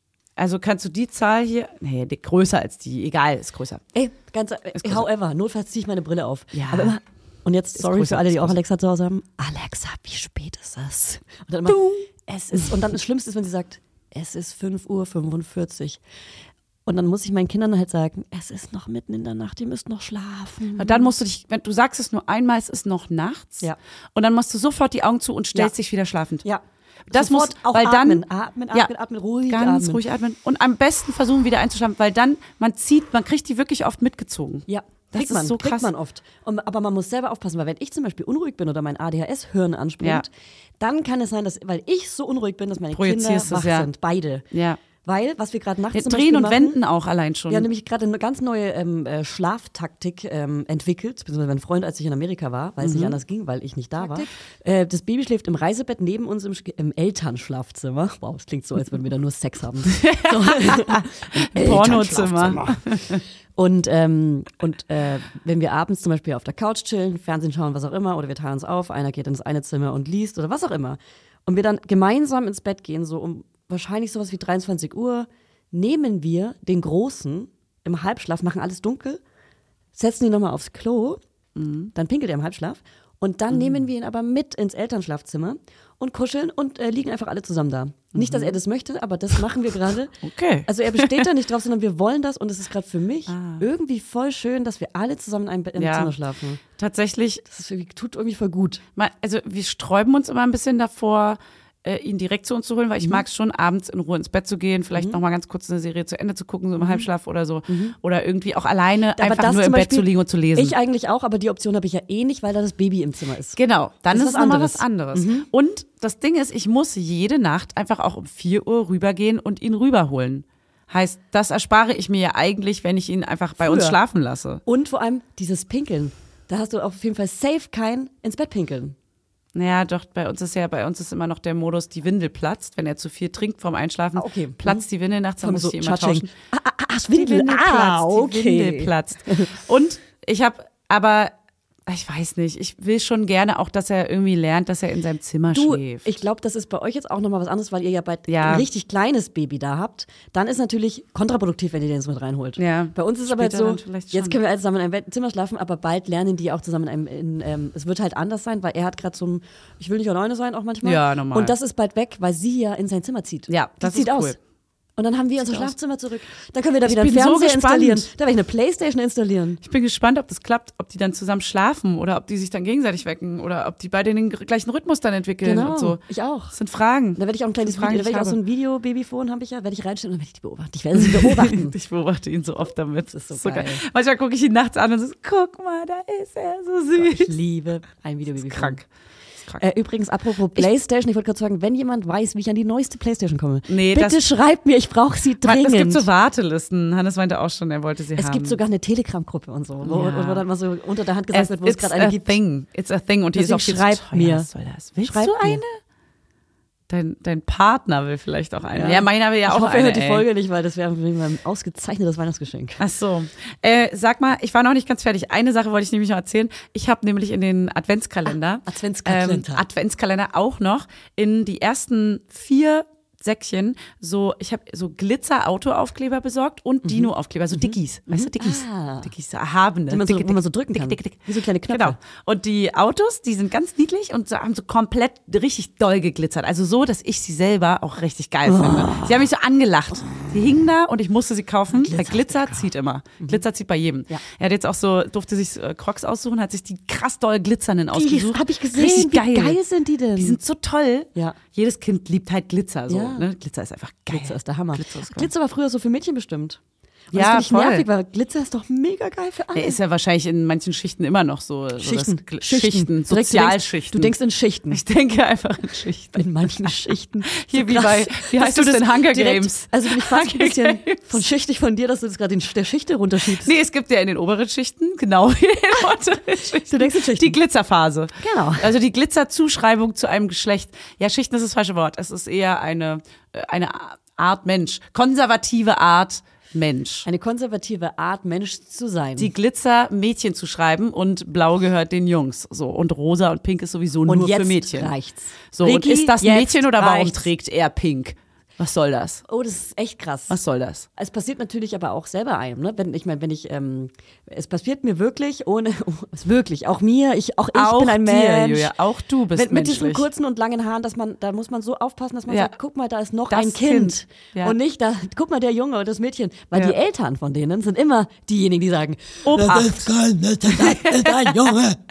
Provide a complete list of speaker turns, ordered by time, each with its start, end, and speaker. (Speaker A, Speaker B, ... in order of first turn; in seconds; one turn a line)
Speaker A: 0.4-3.9
Speaker B: 3.9-16.0
Speaker A: 4.8-5.0
Speaker A: 6.5-6.9
Speaker A: 7.8-8.6
Speaker A: 11.7-12.7
Speaker B: 16.9-21.1
Speaker A: 20.8-23.6
Speaker A: 24.1-26.4
Speaker B: 26.4-30.0
Speaker A: 27.1-28.9
Speaker A: 29.5-35.9
Speaker B: 34.7-40.3
Speaker B: 40.8-44.5
Speaker A: 42.9-43.9
Speaker A: 44.5-44.8
Speaker B: 45.0-46.8
Speaker A: 45.9-47.7
Speaker B: 47.5-62.8
Speaker A: 52.8-53.1
Speaker A: 59.9-63.2
Speaker B: 63.6-79.2
Speaker B: 80.0-81.2
Speaker A: 81.6-81.9
Speaker B: 81.9-90.1
Speaker A: 83.5-83.8
Speaker A: 88.1-88.6
Speaker A: 90.2-91.3
Speaker B: 90.7-96.6
Speaker A: 93.3-93.6
Speaker A: 95.8-96.1
Speaker A: 96.8-97.4
Speaker B: 97.5-98.8
Speaker A: 99.0-110.7
Speaker B: 104.9-105.2
Speaker B: 106.8-107.1
Speaker B: 107.7-107.9
Speaker B: 109.2-113.6
Speaker A: 113.6-124.6
Speaker B: 114.1-115.5
Speaker B: 123.6-124.0
Speaker B: 124.7-128.9
Speaker A: 129.6-136.3
Speaker B: 134.2-134.8
Speaker B: 135.4-139.5
Speaker A: 137.1-141.3
Speaker A: 141.9-146.1
Speaker B: 145.5-164.4
Speaker A: 148.3-148.7
Speaker A: 152.6-154.4
Speaker A: 160.8-161.5
Speaker A: 163.5-164.4
Speaker B: 165.0-169.6
Speaker A: 165.4-165.7
Speaker A: 166.8-168.1
Speaker A: 169.6-176.0
Speaker B: 175.4-176.6
Speaker A: 176.5-178.4
Speaker B: 177.2-181.7
Speaker A: 180.9-187.3
Speaker B: 183.1-183.8
Speaker B: 186.9-188.8
Speaker A: 188.4-188.8
Speaker B: 189.6-196.1
Speaker A: 193.7-194.2
Speaker A: 195.4-198.6
Speaker B: 198.2-202.4
Speaker A: 199.8-200.4
Speaker A: 201.3-205.8
Speaker B: 203.3-204.5
Speaker B: 205.0-205.6
Speaker A: 206.9-210.3
Speaker B: 208.7-212.8
Speaker A: 212.8-249.6
Speaker B: 218.7-219.6
Speaker B: 226.8-229.1
Speaker B: 229.9-232.0
Speaker B: 238.4-239.3
Speaker B: 240.0-240.4
Speaker B: 241.7-242.7
Speaker B: 247.9-250.4
Speaker A: 250.2-255.3
Speaker B: 252.9-253.3
Speaker B: 254.1-256.6
Speaker B: 257.1-259.8
Speaker A: 257.1-257.9
Speaker A: 259.6-264.1
Speaker B: 261.8-264.8
Speaker A: 264.7-271.2
Speaker B: 266.1-273.5
Speaker A: 273.4-287.1
Speaker B: 276.7-277.4
Speaker B: 278.2-278.7
Speaker B: 287.1-289.3
Speaker A: 289.2-294.9
Speaker B: 294.1-297.3
Speaker A: 295.5-299.2
Speaker B: 299.3-300.4
Speaker A: 300.3-300.9
Speaker B: 300.9-308.7
Speaker A: 307.6-310.1
Speaker B: 309.3-321.8
Speaker A: 312.3-312.5
Speaker A: 313.3-314.6
Speaker A: 319.3-319.9
Speaker A: 320.4-321.6